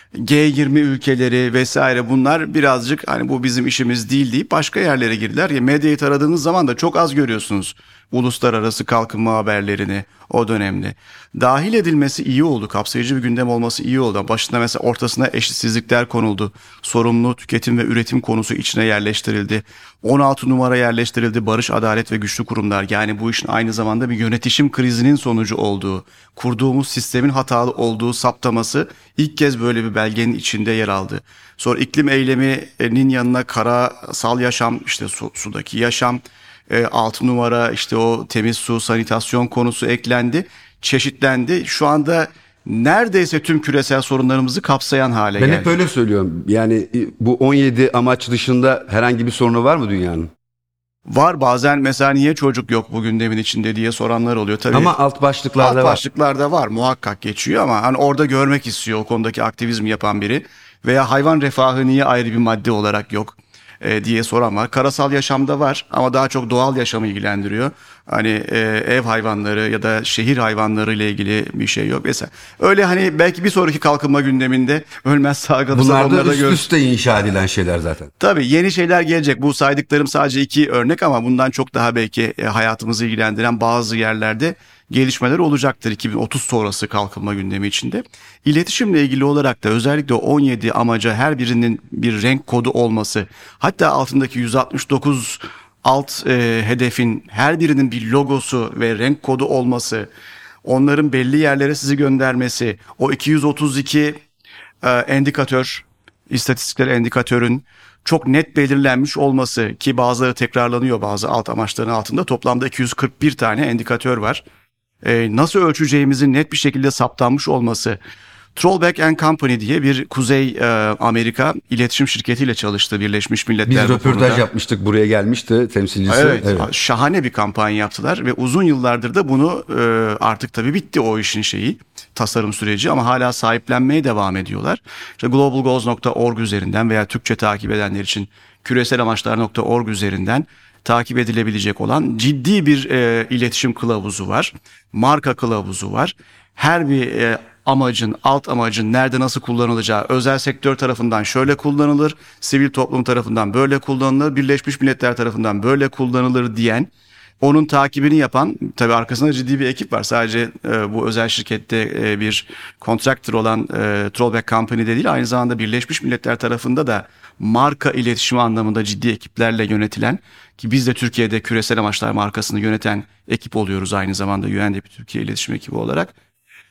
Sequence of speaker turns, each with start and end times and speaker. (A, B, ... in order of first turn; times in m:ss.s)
0:00.2-0:45.8 A
0:45.4-0:50.3 B
0:51.1-0:55.0 A
0:54.7-0:56.0 B
0:55.6-1:16.7 A
1:15.7-1:18.1 B
1:18.2-1:40.1 A
1:40.6-1:44.2 A
1:44.8-1:54.4 A
1:55.0-1:58.0 A
1:58.6-2:04.4 A
2:03.7-2:06.7 B
2:06.1-2:36.9 A
2:37.4-2:56.1 A